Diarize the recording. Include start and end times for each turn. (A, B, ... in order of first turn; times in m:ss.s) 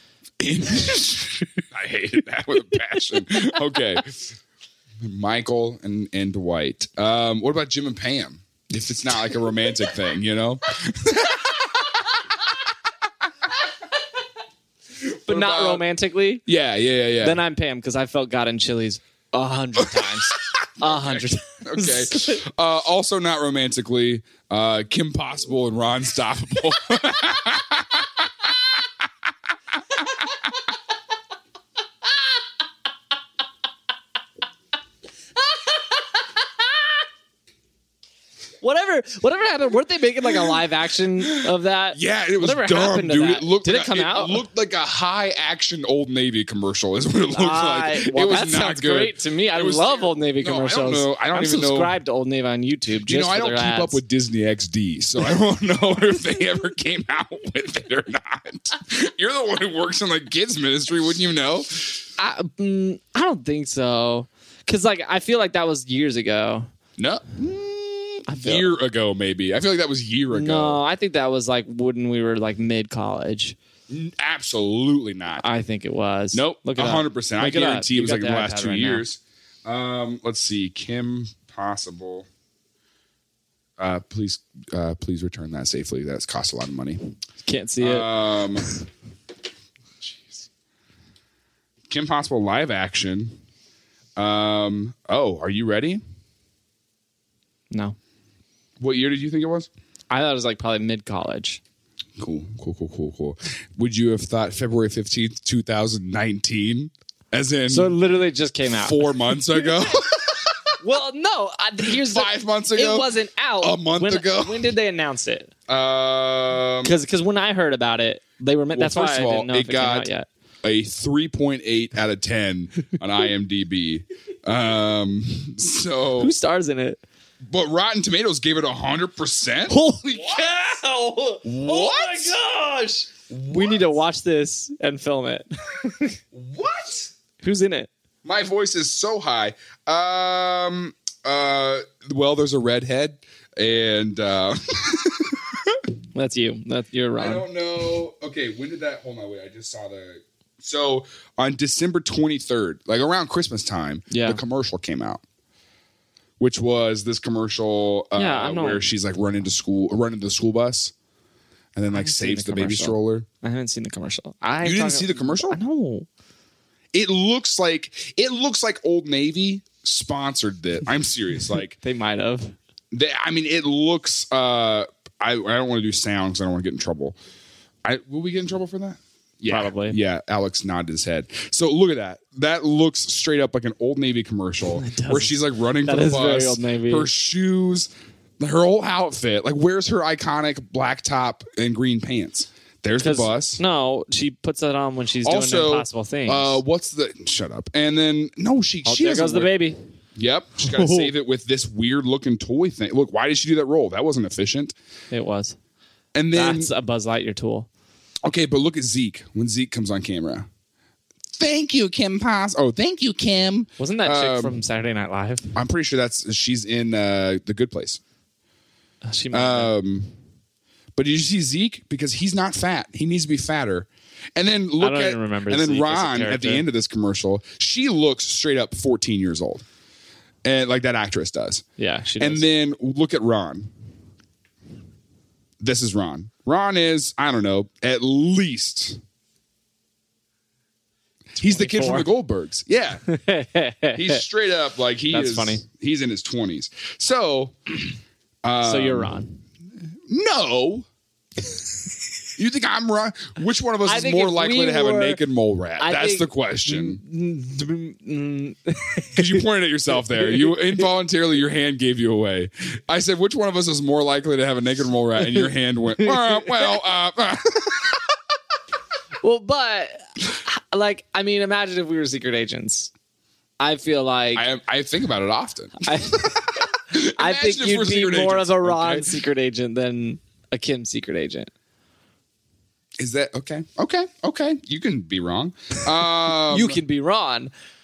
0:00.4-0:04.4 A
0:05.0-0:11.7 A
0:15.0-0:15.8 A
0:15.3-0:16.4 B
0:16.4-0:17.4 A
0:17.2-0:22.4 B
0:19.8-0:28.5 A
0:38.6-0:44.4 B
0:41.2-0:52.0 A
0:47.3-0:54.0 B
0:53.0-1:02.0 A
1:02.2-1:06.7 B
1:07.0-1:10.8 A
1:08.3-1:08.7 B
1:10.3-1:13.6 B
1:13.9-1:15.4 A
1:15.4-1:19.0 B
1:16.3-1:22.3 A
1:23.8-1:27.0 A
1:27.4-1:28.8 B
1:27.8-1:28.6 A
1:30.1-1:30.4 A
1:31.9-1:33.4 A
1:34.2-1:36.0 A
1:37.7-1:38.0 B
1:38.8-1:39.7 A
1:40.1-1:41.6 B
1:42.2-1:47.9 A
1:47.7-1:49.7 B
1:48.7-1:50.6 A
1:50.8-1:55.5 B
1:51.8-1:54.7 A
1:55.7-1:57.0 A
1:56.8-2:00.3 B
1:58.7-2:00.1 A
2:00.6-2:06.3 A
2:06.2-2:07.0 B
2:07.5-2:09.8 A
2:09.7-2:16.2 B
2:11.4-2:12.4 A
2:13.3-2:14.0 A
2:16.3-2:17.1 A
2:17.4-2:17.9 B
2:18.2-2:25.8 A
2:26.1-2:27.4 B
2:27.2-2:35.2 A
2:34.1-2:34.4 B
2:36.4-2:40.9 A
2:38.1-2:38.8 B
2:41.7-2:43.2 A
2:41.9-2:46.1 B
2:44.6-2:45.6 A
2:46.9-2:51.8 A
2:51.7-2:52.6 B
2:52.9-2:57.2 A
2:57.8-3:13.6 A
2:59.5-3:00.0 B
3:04.6-3:07.1 B
3:13.0-3:16.6 B
3:15.2-3:19.5 A
3:18.8-3:19.8 B
3:20.2-3:24.7 A
3:20.6-3:21.1 B
3:25.1-3:25.6 B
3:26.1-3:26.7 A
3:26.3-3:27.7 B
3:28.2-3:30.5 A
3:31.4-3:34.6 A
3:33.8-3:35.5 B
3:35.5-3:38.0 A
3:39.0-3:39.7 B
3:39.3-3:40.1 A
3:41.0-3:49.6 A
3:44.8-3:46.7 B
3:50.4-3:51.6 A
3:51.8-3:52.4 B
3:52.2-3:53.7 A
3:55.6-3:59.0 A
4:01.4-4:03.0 A
4:01.4-4:02.1 B
4:03.1-4:04.2 B
4:03.9-4:09.2 A
4:05.1-4:05.6 B
4:08.6-4:09.4 B
4:10.1-4:10.8 A
4:12.4-4:17.0 A
4:13.8-4:15.2 B
4:15.8-4:19.5 B
4:19.2-4:28.0 A
4:20.0-4:20.8 B
4:25.2-4:25.5 B
4:26.0-4:26.8 B
4:29.2-4:32.9 B
4:33.6-4:34.5 B
4:34.3-4:39.2 A
4:35.8-4:41.5 B
4:43.0-4:46.8 A
4:46.4-4:47.5 B